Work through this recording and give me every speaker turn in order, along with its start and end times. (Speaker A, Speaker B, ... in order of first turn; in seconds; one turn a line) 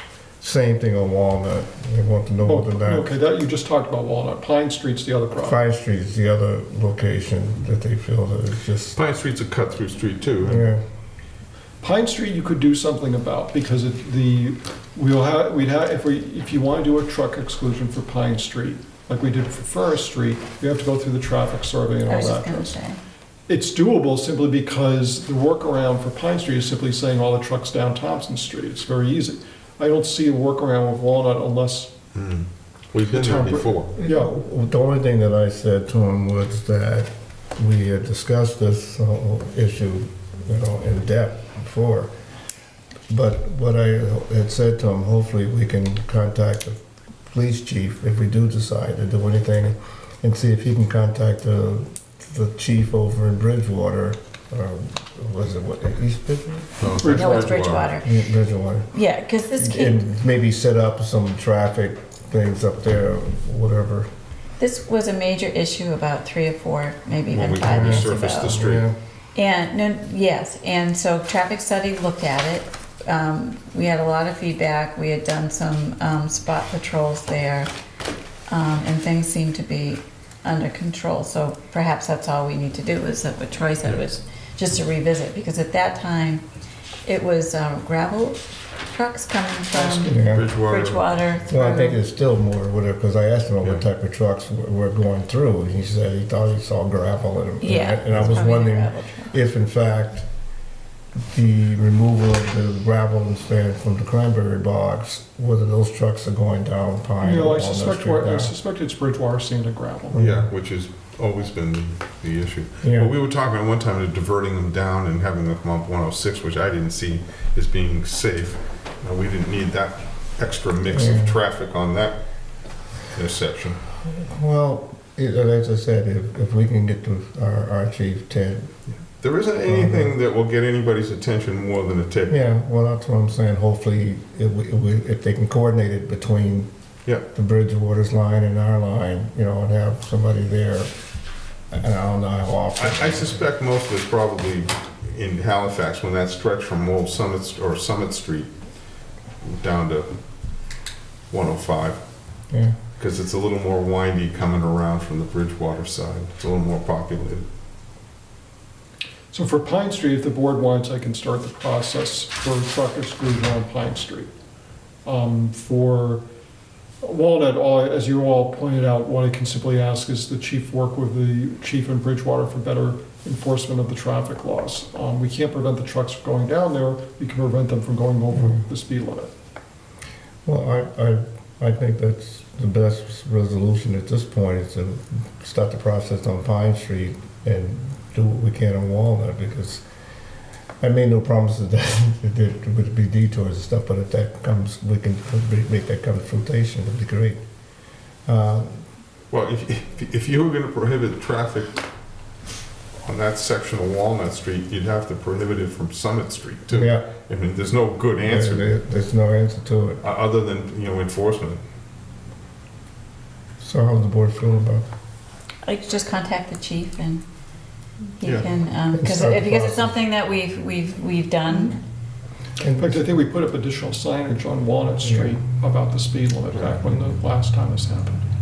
Speaker A: 0.4-3.1
Speaker B: 2.4-5.6
Speaker A: 5.4-9.0
Speaker C: 8.9-10.7
Speaker A: 10.4-10.8
Speaker B: 11.8-22.8
Speaker D: 22.1-23.0
Speaker B: 23.5-31.9
Speaker C: 32.1-33.9
Speaker B: 33.1-34.3
Speaker A: 33.9-42.1
Speaker A: 43.1-56.9
Speaker C: 56.8-58.0
Speaker B: 57.0-57.3
Speaker D: 57.0-58.1
Speaker A: 58.0-58.9
Speaker D: 58.9-60.0
Speaker A: 59.5-64.1
Speaker D: 64.6-68.6
Speaker C: 67.3-68.8
Speaker A: 67.6-69.0
Speaker D: 69.3-77.7
Speaker D: 78.5-86.4
Speaker D: 87.0-92.0
Speaker C: 89.7-91.0
Speaker A: 90.1-90.5
Speaker A: 91.5-100.2
Speaker D: 97.6-99.3
Speaker C: 98.1-98.4
Speaker A: 101.3-108.5
Speaker B: 107.2-110.2
Speaker A: 110.1-110.5
Speaker C: 110.1-122.2
Speaker A: 112.8-113.1
Speaker A: 120.9-121.3
Speaker C: 123.1-123.8
Speaker A: 124.1-128.7
Speaker C: 129.2-132.4
Speaker A: 129.6-130.1
Speaker A: 132.3-136.7
Speaker A: 137.3-140.9
Speaker A: 141.7-143.5
Speaker C: 142.8-148.5
Speaker C: 149.4-150.1
Speaker C: 151.3-152.0
Speaker A: 152.5-152.8
Speaker C: 153.0-157.4
Speaker B: 159.3-164.3
Speaker B: 165.0-166.2
Speaker B: 167.0-179.3
Speaker A: 180.4-189.8
Speaker A: 190.8-197.4
Speaker A: 198.2-198.8
Speaker C: 199.3-201.8
Speaker C: 203.0-208.7
Speaker A: 206.7-207.1
Speaker A: 208.3-210.0
Speaker C: 210.0-211.6
Speaker A: 213.6-214.8
Speaker D: 215.6-217.2
Speaker D: 218.2-221.8
Speaker C: 218.2-218.5
Speaker A: 218.9-220.0
Speaker A: 222.6-223.1
Speaker B: 222.8-228.2
Speaker A: 225.0-225.4
Speaker C: 226.5-226.9